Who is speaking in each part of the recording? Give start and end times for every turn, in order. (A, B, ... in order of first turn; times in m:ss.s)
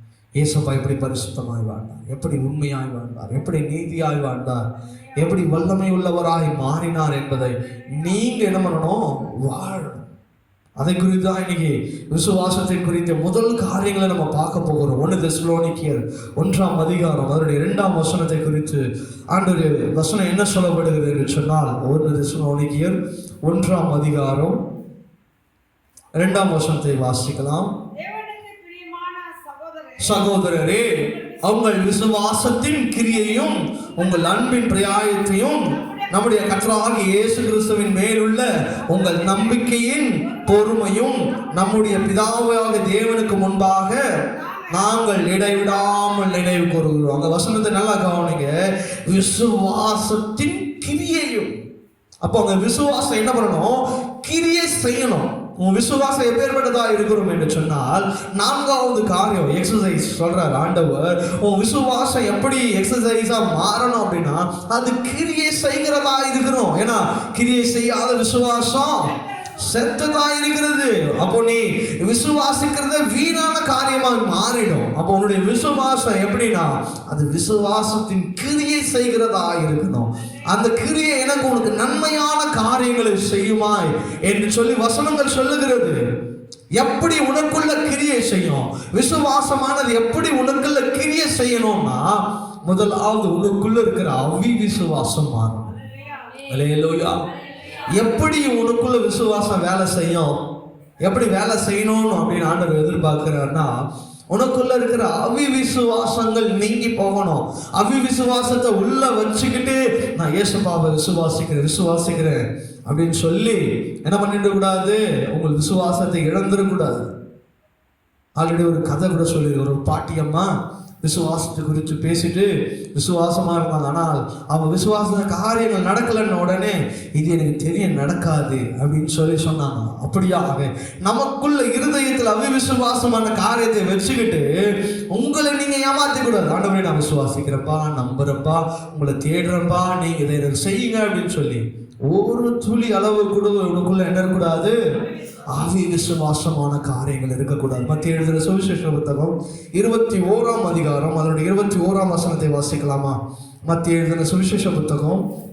0:00.4-0:04.6 A
0:05.2-0:10.0 A
0:10.8-0:24.6 A
0:26.2-0:27.7 A
0:27.9-0:30.3 B
0:30.0-0:44.0 A
0:35.8-0:36.1 B
0:39.1-0:39.4 B
0:41.2-0:41.6 B
0:44.3-0:44.9 B
0:44.7-0:48.5 A
0:49.1-0:51.6 A
0:52.2-1:26.0 A
1:09.1-1:09.8 B
1:26.8-1:35.8 A
1:35.8-1:36.5 B
1:36.5-1:37.3 A
1:37.8-1:40.3 A
1:41.0-1:43.7 A
1:44.3-1:57.0 A
1:58.4-2:00.5 A
2:01.0-2:14.5 A
2:15.1-2:24.8 A
2:25.5-2:35.2 A